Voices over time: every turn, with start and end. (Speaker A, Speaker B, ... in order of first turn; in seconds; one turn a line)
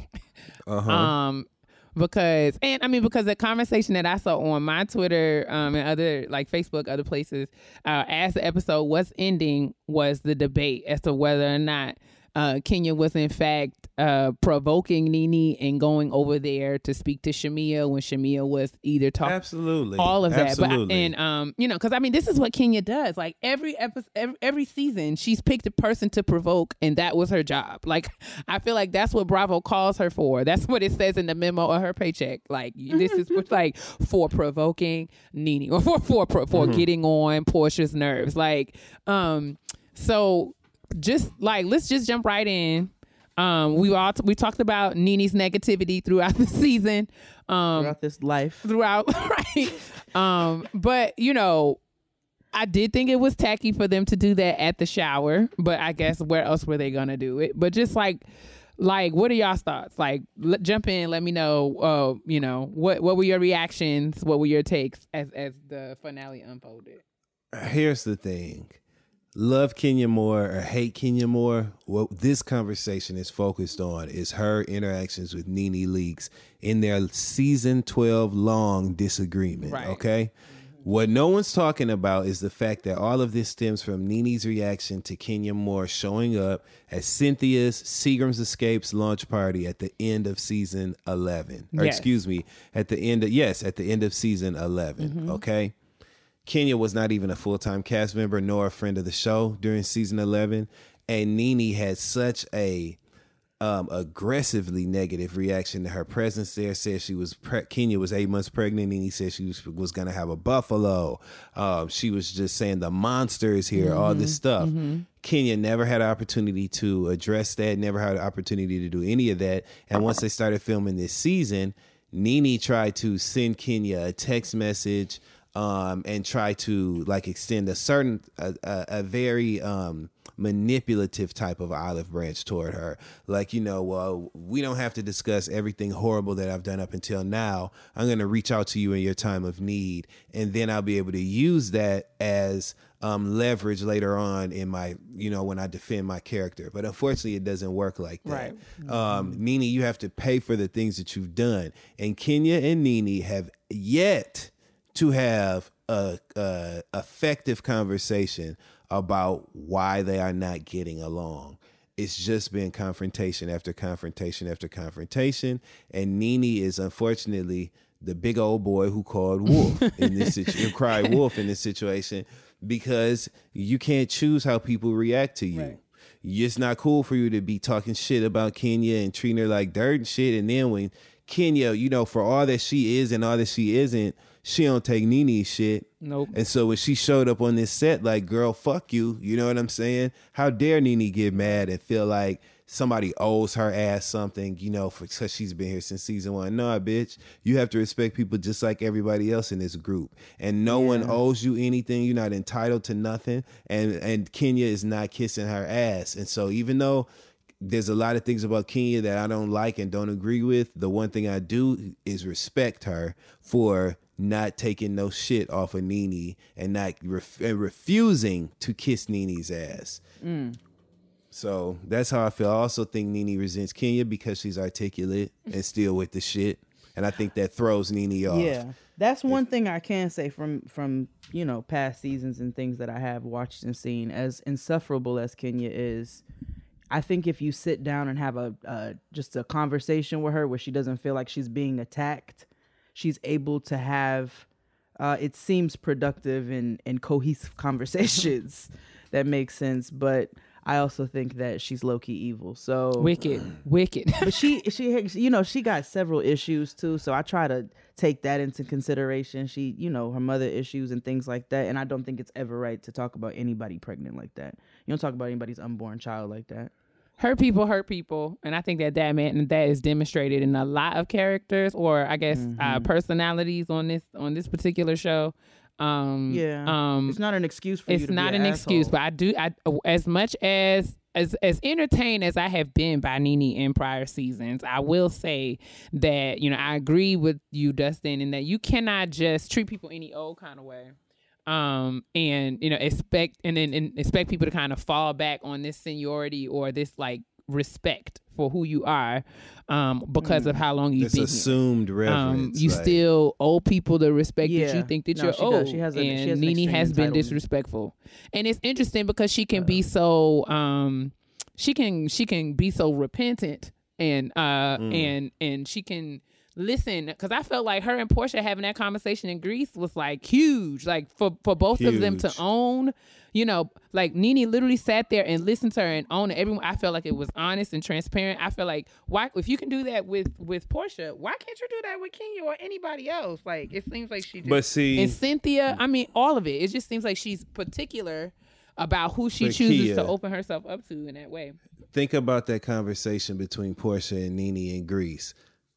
Speaker A: 0.7-1.1
Speaker B: 0.9-19.4
Speaker A: 19.2-21.1
Speaker B: 20.0-47.9
Speaker A: 36.5-36.8
Speaker C: 47.7-48.6
Speaker B: 48.6-51.8
Speaker B: 52.5-58.2
Speaker B: 58.8-67.0
Speaker A: 67.5-68.8
Speaker A: 69.3-95.7
Speaker B: 79.6-80.0
Speaker B: 91.7-92.1
Speaker C: 95.0-95.4
Speaker A: 96.5-103.0
Speaker A: 103.6-207.1
Speaker B: 113.7-115.0
Speaker B: 148.2-148.6
Speaker C: 148.8-149.4
Speaker B: 169.5-171.2
Speaker B: 186.0-186.4
Speaker C: 200.7-201.2
Speaker A: 207.6-220.0
Speaker C: 220.2-220.6
Speaker A: 221.3-228.6
Speaker C: 228.3-236.2
Speaker C: 236.9-244.5
Speaker C: 245.0-253.2
Speaker B: 253.0-254.4
Speaker C: 254.2-266.7
Speaker B: 267.2-277.2
Speaker C: 272.3-272.9
Speaker C: 276.3-278.9
Speaker B: 277.9-290.9
Speaker B: 291.5-341.6
Speaker C: 300.2-300.6
Speaker A: 301.0-303.0
Speaker C: 304.4-307.4
Speaker C: 309.6-309.8
Speaker A: 314.8-315.1
Speaker A: 321.8-322.4
Speaker A: 334.4-335.2
Speaker A: 339.4-340.1
Speaker A: 341.9-345.3